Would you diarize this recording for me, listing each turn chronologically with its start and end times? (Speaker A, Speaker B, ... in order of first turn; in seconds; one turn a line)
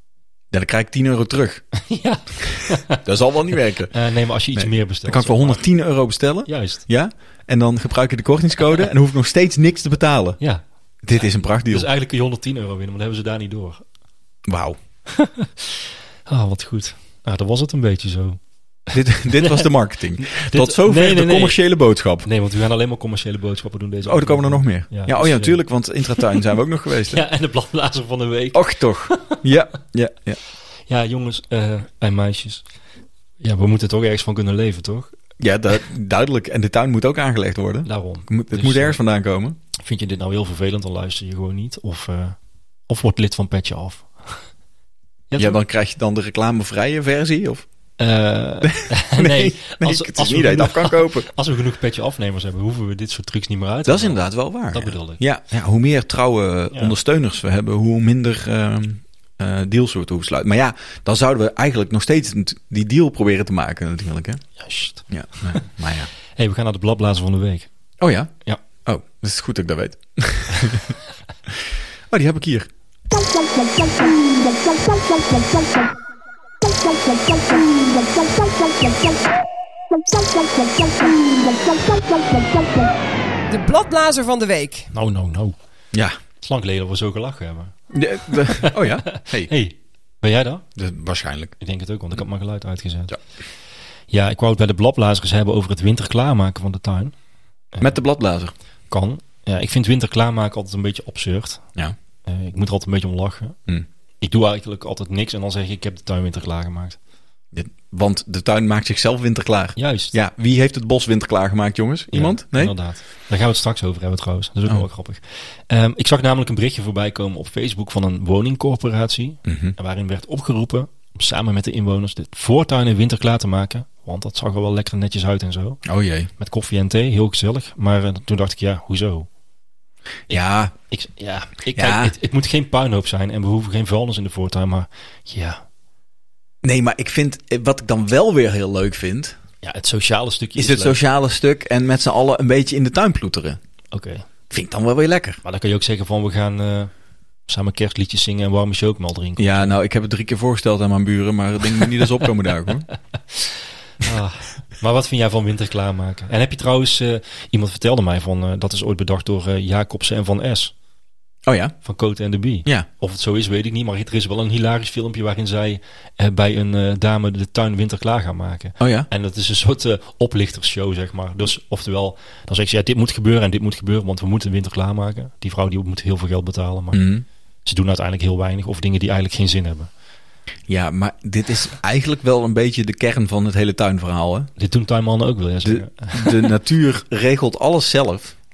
Speaker A: 0.5-1.6
Speaker B: 1.7-3.0
Speaker A: 2.9-4.0
Speaker B: 3.9-5.6
Speaker A: 4.5-10.4
Speaker B: 6.5-6.8
Speaker A: 11.0-11.9
Speaker B: 11.2-13.8
Speaker A: 14.4-14.8
Speaker B: 15.1-15.5
Speaker B: 16.3-18.4
Speaker A: 18.9-22.3
Speaker B: 19.4-19.7
Speaker B: 20.2-21.6
Speaker B: 22.2-26.4
Speaker A: 24.0-27.2
Speaker B: 27.1-29.4
Speaker A: 28.5-30.4
Speaker B: 30.9-32.7
Speaker B: 33.4-35.1
Speaker A: 35.4-39.6
Speaker B: 37.8-39.0
Speaker B: 39.8-42.4
Speaker B: 42.9-44.4
Speaker B: 45.3-45.6
Speaker A: 45.4-47.6
Speaker B: 48.0-55.2
Speaker A: 48.6-51.3
Speaker A: 53.9-64.4
Speaker B: 64.6-65.7
Speaker A: 65.1-66.1
Speaker B: 66.3-67.7
Speaker A: 68.0-68.3
Speaker A: 68.8-71.0
Speaker A: 71.5-72.7
Speaker C: 73.2-75.9
Speaker C: 76.6-79.2
Speaker C: 79.9-82.9
Speaker C: 83.5-84.9
Speaker B: 84.9-85.5
Speaker B: 86.4-90.6
Speaker A: 87.9-89.5
Speaker A: 90.8-91.5
Speaker B: 91.6-93.2
Speaker B: 94.1-97.1
Speaker A: 97.8-98.5
Speaker B: 98.9-101.7
Speaker B: 102.2-103.6
Speaker B: 104.2-107.0
Speaker A: 107.5-112.7
Speaker B: 109.8-110.1
Speaker B: 112.1-125.8
Speaker A: 119.4-119.7
Speaker A: 125.8-126.3
Speaker B: 126.4-129.3
Speaker A: 130.3-130.7
Speaker B: 130.3-135.6
Speaker A: 131.7-132.1
Speaker A: 136.6-139.4
Speaker B: 139.6-141.0
Speaker A: 140.6-143.6
Speaker B: 143.9-144.2
Speaker A: 144.5-145.4
Speaker B: 145.4-146.9
Speaker B: 147.5-149.8
Speaker A: 149.4-152.8
Speaker B: 154.0-160.7
Speaker A: 161.4-161.8
Speaker B: 161.8-177.0
Speaker A: 168.8-169.1
Speaker A: 176.9-177.2
Speaker B: 177.6-179.9
Speaker A: 180.7-184.5
Speaker B: 184.6-186.5
Speaker A: 185.6-188.3